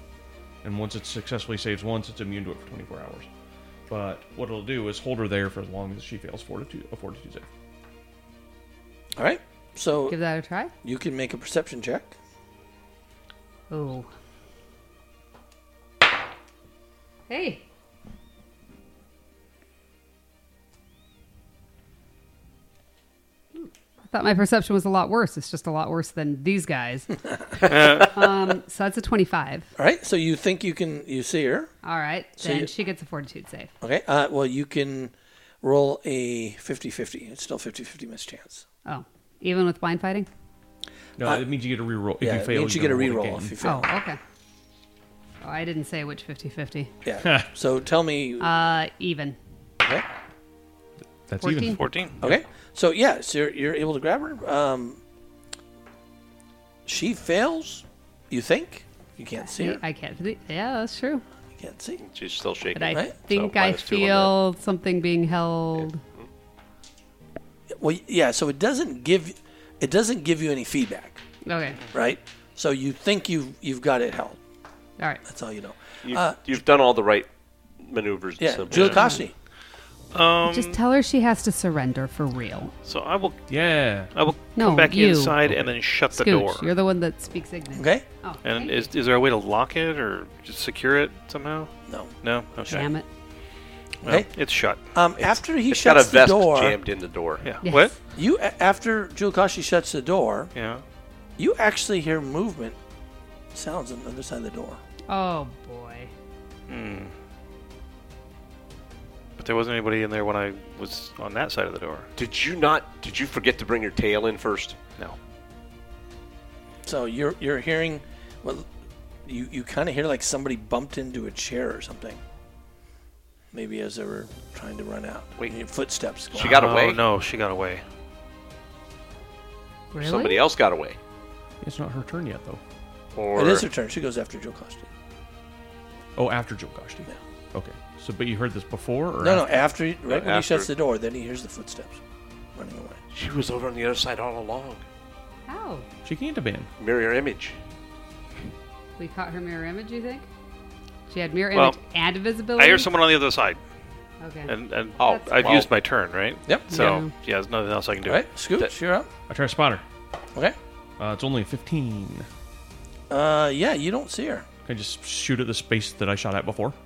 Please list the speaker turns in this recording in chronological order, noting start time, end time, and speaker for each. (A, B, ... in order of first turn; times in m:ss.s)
0:00.6-0:03.3 A
0:03.9-0:07.5 A
0:09.2-0:10.2 B
0:10.1-0:10.7 C
0:10.8-0:12.2 B
0:13.7-0:14.1 C
0:17.3-0:17.6 C
0:23.6-0:27.2 C
0:27.7-0:28.1 D
0:27.8-0:29.7 C
0:29.8-0:31.7 B
0:31.8-0:33.7 C
0:32.4-0:32.7 B
0:33.8-0:38.6 B
0:38.8-0:40.3 C
0:41.2-0:43.5 A
0:42.2-0:43.9 B
0:43.6-0:44.2 C
0:45.4-0:46.9 C
0:47.0-0:48.5 B
0:47.2-0:47.5 A
0:48.4-0:49.4 C
0:51.3-0:51.8 A
0:51.4-0:51.8 C
0:51.7-0:52.3 D
0:52.2-0:55.0 B
0:56.8-0:59.8 B
0:59.4-1:01.2 C
1:01.6-1:02.0 B
1:02.0-1:04.3 E
1:02.7-1:06.0 C
1:07.8-1:11.2 B
1:11.4-1:11.8 C
1:11.9-1:14.4 B
1:15.2-1:16.4 B
1:16.0-1:17.3 E
1:17.8-1:19.0 E
1:18.4-1:19.3 B
1:18.7-1:19.1 D
1:18.9-1:19.2 C
1:20.1-1:20.8 D
1:20.4-1:22.7 C
1:22.8-1:23.4 D
1:23.5-1:24.1 A
1:24.0-1:26.7 D
1:24.6-1:25.4 C
1:25.4-1:25.7 A
1:26.1-1:28.9 C
1:27.8-1:28.0 B
1:28.4-1:31.7 D
1:31.9-1:32.8 B
1:32.2-1:32.9 D
1:32.7-1:33.0 C
1:34.0-1:35.3 D
1:34.0-1:34.3 B
1:34.9-1:36.8 B
1:35.7-1:37.4 E
1:37.4-1:38.0 D
1:37.6-1:37.9 C
1:38.1-1:40.5 B
1:40.5-1:40.8 D
1:41.4-1:42.8 B
1:43.5-1:44.8 B
1:45.1-1:46.1 C
1:46.7-1:47.1 D
1:49.4-1:52.1 D
1:52.2-1:54.8 E
1:56.8-1:58.7 B
1:59.2-2:02.2 B
2:03.5-2:06.6 B
2:06.3-2:07.0 E
2:06.5-2:07.8 D
2:09.9-2:10.4 C
2:10.0-2:11.0 E
2:11.6-2:12.6 A
2:13.1-2:13.7 E
2:13.4-2:14.9 B
2:16.2-2:19.4 A
2:19.2-2:22.0 B
2:20.0-2:20.7 E
2:22.5-2:23.0 B
2:23.1-2:24.8 E
2:25.4-2:25.9 C
2:26.0-2:26.7 A
2:26.8-2:27.6 E
2:29.0-2:30.3 C
2:31.1-2:32.9 C
2:32.6-2:33.6 D
2:34.2-2:35.5 C
2:34.5-2:38.2 D
2:35.0-2:35.7 E
2:36.7-2:37.1 C
2:38.0-2:39.1 B
2:39.3-2:39.8 A
2:41.0-2:42.3 A
2:43.1-2:44.4 B
2:44.6-2:46.8 A